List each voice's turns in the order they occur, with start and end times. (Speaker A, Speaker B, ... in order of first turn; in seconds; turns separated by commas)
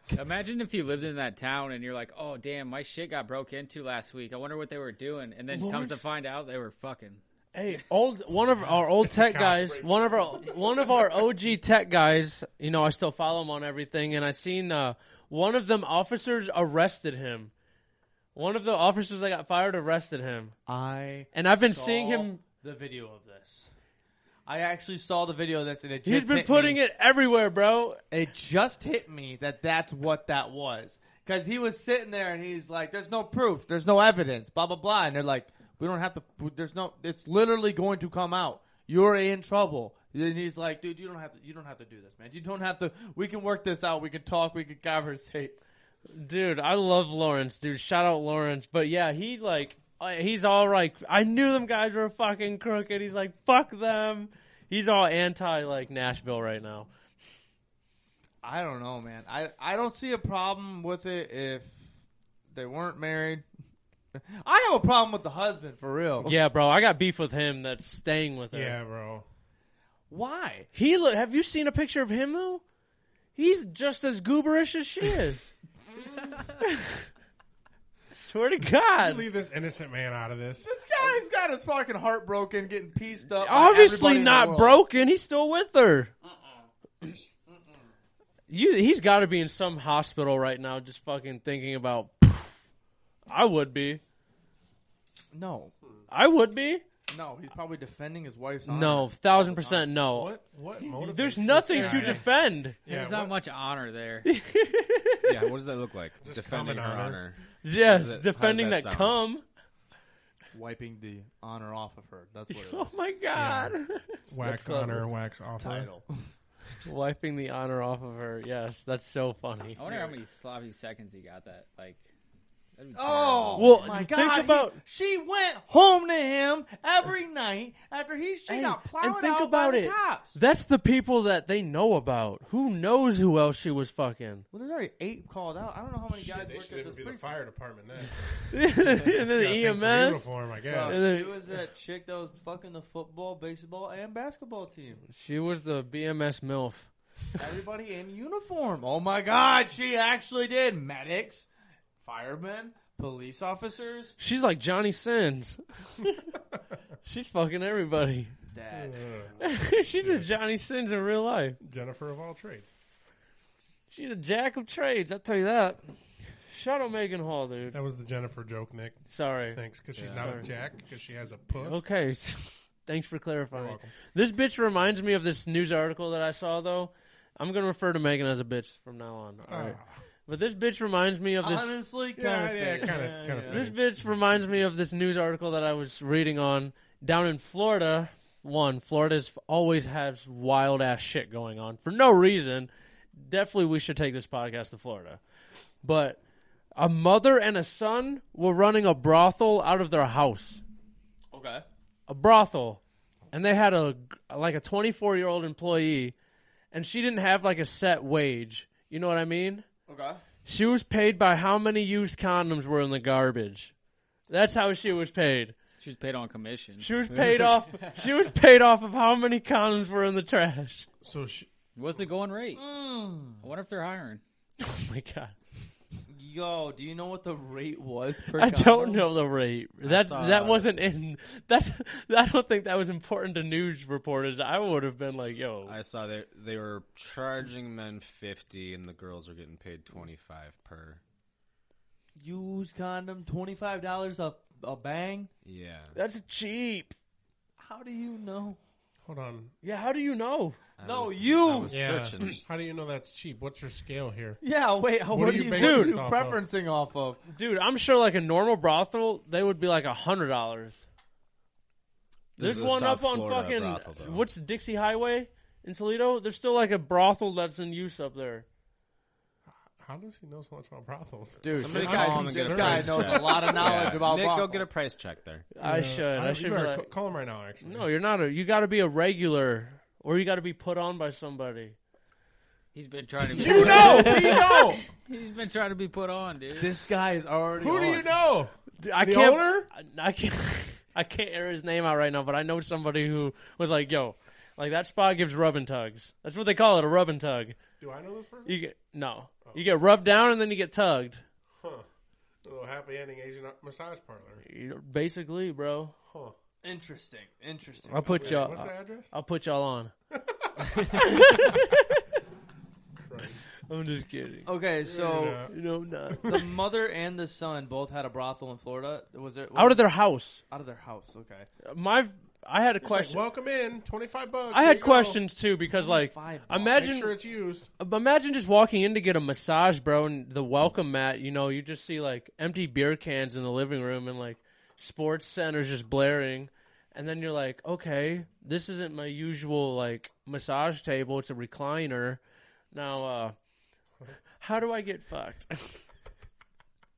Speaker A: 0.1-7.2, Speaker B: 5.5-6.0, Speaker B: 7.5-17.5, Speaker C: 9.0-11.1, Speaker B: 18.3-20.5, Speaker D: 20.7-23.7, Speaker B: 21.3-22.4, Speaker D: 24.5-26.8, Speaker B: 26.0-28.0, Speaker D: 28.1-45.6, Speaker B: 46.1-56.9, Speaker D: 58.4-61.8, Speaker D: 62.5-63.4, Speaker D: 64.1-66.4, Speaker B: 66.2-68.8, Speaker C: 68.5-69.2, Speaker D: 70.1-70.7, Speaker B: 70.7-72.6, Speaker B: 73.3-75.5, Speaker B: 76.5-77.1, Speaker B: 78.1-79.2, Speaker C: 79.0-80.7, Speaker D: 80.6-84.8, Speaker B: 83.3-86.1, Speaker B: 88.5-92.6, Speaker B: 93.3-94.0, Speaker D: 95.3-95.7, Speaker B: 96.1-96.8, Speaker D: 97.1-99.9, Speaker B: 98.7-102.8, Speaker C: 100.1-102.3, Speaker C: 102.8-103.3, Speaker A: 102.8-104.3, Speaker B: 104.2-105.5, Speaker E: 105.2-109.2, Speaker C: 106.2-107.2, Speaker B: 107.6-109.4, Speaker D: 110.5-113.0, Speaker B: 112.5-115.0, Speaker C: 113.3-115.9, Speaker D: 115.6-116.1, Speaker B: 116.8-119.8, Speaker A: 119.8-122.0, Speaker D: 119.8-120.2, Speaker A: 122.8-123.8, Speaker D: 122.9-130.4, Speaker B: 123.5-124.8, Speaker B: 128.5-134.4, Speaker D: 134.5-137.3, Speaker C: 136.1-141.1, Speaker B: 138.5-140.3, Speaker D: 140.7-145.0, Speaker B: 140.8-141.4, Speaker B: 145.1-146.9, Speaker D: 147.4-151.5, Speaker D: 152.0-154.1, Speaker B: 154.2-156.3, Speaker B: 157.0-158.3, Speaker D: 158.5-159.1, Speaker C: 158.7-160.4, Speaker B: 159.4-161.6, Speaker C: 161.6-162.7, Speaker B: 163.9-165.8, Speaker B: 166.4-167.8, Speaker C: 167.7-171.8, Speaker B: 169.1-170.5, Speaker E: 169.9-170.3, Speaker B: 171.6-181.8, Speaker C: 173.5-173.9, Speaker C: 179.4-179.9, Speaker D: 181.4-183.7, Speaker C: 182.2-183.8, Speaker B: 183.4-195.2, Speaker B: 195.8-196.2, Speaker B: 196.8-200.6, Speaker D: 201.3-201.6, Speaker B: 202.1-202.8, Speaker B: 203.3-206.1, Speaker B: 206.7-209.7, Speaker D: 209.9-210.2, Speaker B: 210.4-213.7, Speaker B: 214.3-215.6, Speaker A: 215.8-216.9, Speaker B: 216.8-220.9, Speaker E: 217.1-217.4, Speaker C: 221.0-221.5, Speaker A: 221.7-222.6, Speaker D: 222.5-223.4, Speaker A: 223.4-224.2, Speaker B: 224.6-225.3, Speaker D: 226.1-229.1, Speaker B: 228.3-235.8, Speaker E: 229.8-230.7, Speaker E: 235.6-241.0, Speaker D: 242.2-245.3, Speaker E: 245.4-245.9, Speaker B: 245.9-246.9, Speaker D: 247.6-248.6, Speaker C: 249.1-249.5, Speaker B: 249.6-250.6, Speaker E: 250.8-252.4, Speaker D: 250.8-251.8, Speaker C: 251.7-254.4, Speaker D: 254.4-257.2, Speaker C: 255.1-256.4, Speaker B: 255.4-256.0, Speaker B: 257.3-260.8, Speaker E: 262.4-264.2, Speaker B: 262.4-268.4, Speaker C: 269.7-273.9, Speaker D: 271.4-274.7, Speaker E: 271.6-275.5, Speaker B: 275.5-276.9, Speaker C: 275.6-277.9, Speaker B: 277.6-281.8, Speaker A: 282.7-286.9, Speaker C: 283.3-284.8, Speaker B: 283.4-284.2, Speaker D: 286.6-288.2, Speaker C: 287.6-289.7, Speaker B: 288.8-297.6, Speaker C: 297.8-298.6, Speaker B: 298.4-301.2, Speaker C: 301.6-301.9, Speaker C: 302.4-304.4, Speaker B: 304.4-305.9, Speaker C: 306.1-306.3, Speaker D: 306.6-308.5, Speaker B: 307.9-309.9, Speaker C: 308.0-309.1, Speaker C: 310.1-311.6, Speaker B: 310.8-312.0, Speaker C: 313.0-313.4, Speaker B: 313.6-314.5, Speaker D: 314.4-315.5, Speaker C: 314.8-315.6, Speaker B: 315.4-316.5, Speaker C: 316.1-316.4, Speaker D: 316.2-319.9, Speaker B: 319.5-320.4, Speaker D: 320.5-321.5, Speaker B: 321.6-323.2, Speaker C: 322.8-325.2, Speaker B: 324.5-327.2, Speaker D: 325.7-326.8, Speaker C: 326.7-327.7, Speaker B: 327.8-342.2, Speaker B: 342.7-343.3, Speaker B: 344.4-345.8